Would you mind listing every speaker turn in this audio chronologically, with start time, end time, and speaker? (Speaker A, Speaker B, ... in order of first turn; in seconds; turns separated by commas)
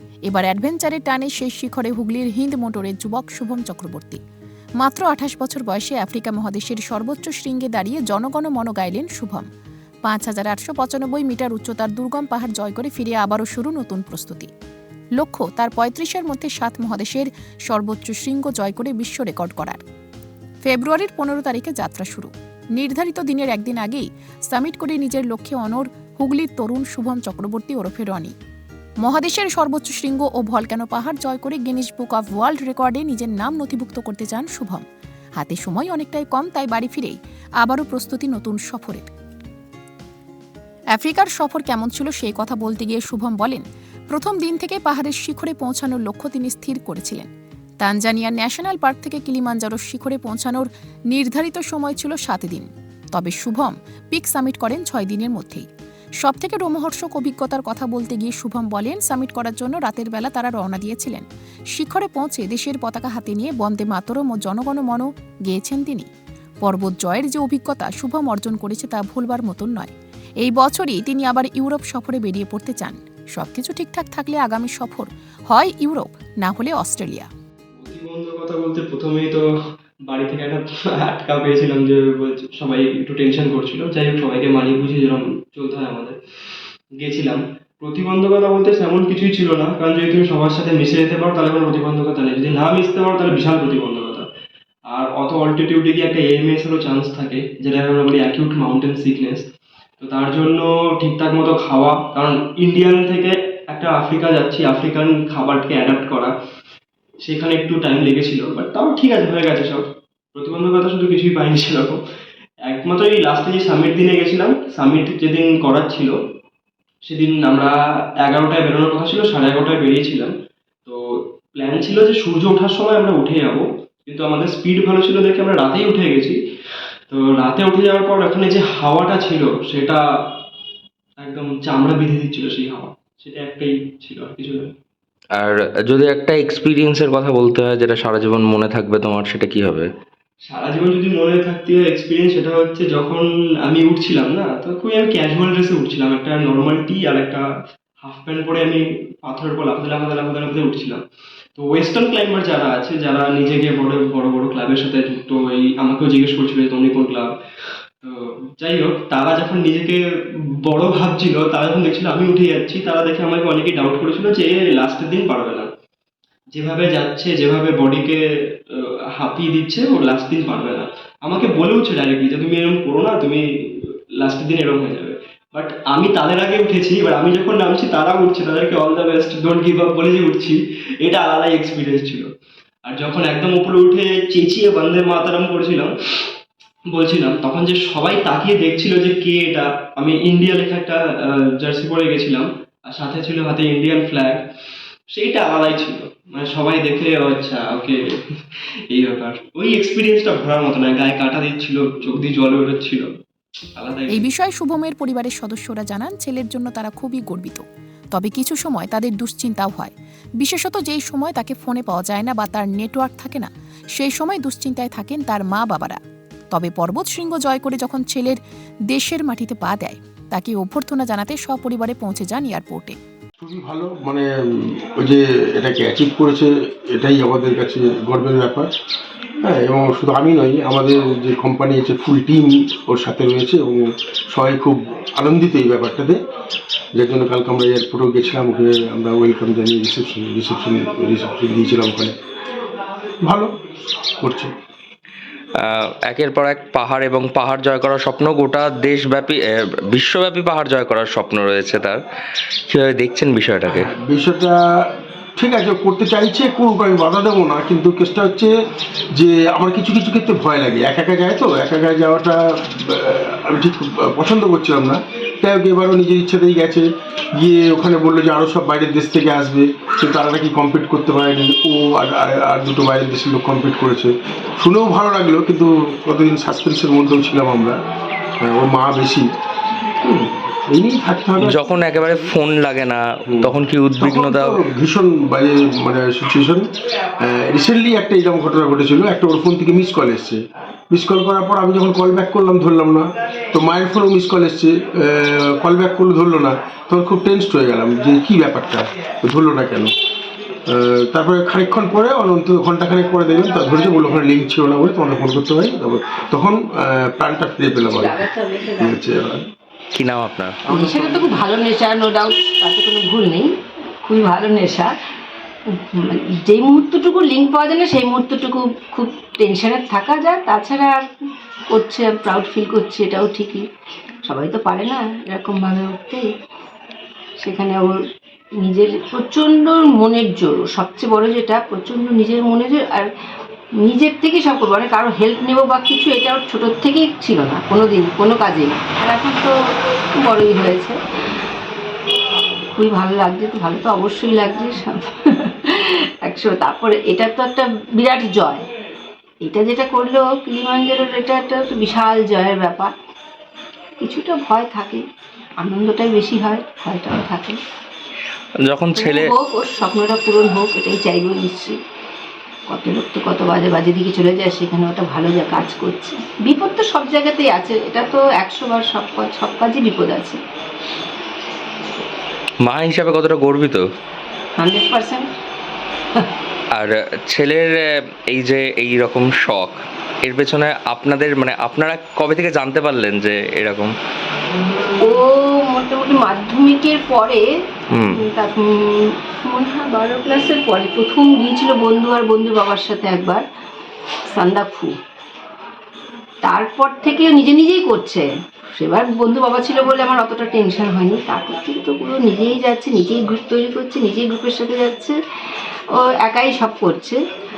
Speaker A: 0.2-4.2, Speaker A: 4.8-9.4, Speaker A: 10.0-14.5, Speaker A: 15.2-19.8, Speaker A: 20.6-28.3, Speaker A: 29.0-34.8, Speaker A: 35.4-39.1, Speaker A: 40.9-47.3, Speaker A: 47.8-55.7, Speaker A: 56.2-66.1, Speaker A: 66.6-69.9, Speaker A: 70.4-77.3, Speaker B: 77.8-79.4, Speaker B: 80.1-86.2, Speaker B: 87.0-94.2, Speaker B: 94.9-99.5, Speaker B: 100.0-106.3, Speaker B: 107.2-109.8, Speaker B: 110.3-112.0, Speaker B: 112.7-116.1, Speaker B: 117.0-120.3, Speaker B: 121.5-126.4, Speaker B: 127.1-130.0, Speaker B: 131.2-134.7, Speaker C: 135.3-139.9, Speaker B: 140.4-147.4, Speaker B: 148.0-151.0, Speaker B: 151.6-157.3, Speaker B: 158.0-160.0, Speaker B: 160.7-165.7, Speaker B: 166.5-182.3, Speaker B: 182.9-185.9, Speaker B: 186.9-194.4, Speaker B: 195.1-198.0, Speaker B: 198.9-203.1, Speaker B: 203.8-204.2, Speaker A: 204.1-216.0, Speaker A: 216.5-218.4, Speaker A: 218.9-223.0, Speaker D: 223.4-228.7, Speaker D: 229.4-236.2, Speaker D: 236.9-242.1, Speaker D: 243.2-243.5, Speaker D: 244.2-244.5, Speaker C: 245.6-252.0, Speaker C: 252.7-253.9, Speaker D: 253.7-254.6, Speaker D: 255.4-258.5, Speaker D: 259.1-277.8, Speaker D: 278.4-279.3, Speaker D: 280.0-281.6, Speaker C: 281.4-284.6, Speaker D: 283.3-286.6, Speaker D: 287.2-299.9, Speaker D: 300.7-308.2, Speaker E: 307.9-309.0, Speaker D: 308.8-309.4, Speaker C: 309.9-310.6, Speaker E: 310.7-313.5, Speaker D: 310.7-311.4, Speaker E: 314.0-314.9, Speaker E: 315.8-321.0, Speaker E: 321.7-323.6, Speaker E: 324.2-326.3, Speaker E: 327.4-328.0, Speaker E: 328.6-333.1, Speaker E: 333.8-339.5, Speaker E: 340.1-341.0, Speaker E: 342.7-348.6, Speaker E: 349.4-352.9, Speaker E: 354.0-355.0, Speaker E: 355.6-357.6, Speaker C: 358.6-359.3, Speaker E: 358.9-361.8, Speaker E: 362.7-370.4, Speaker C: 372.6-373.8, Speaker E: 374.6-375.3, Speaker C: 376.7-383.9, Speaker E: 385.0-387.4, Speaker C: 387.9-388.2, Speaker E: 388.1-393.4, Speaker E: 394.3-394.9, Speaker E: 396.4-405.1, Speaker E: 405.9-407.2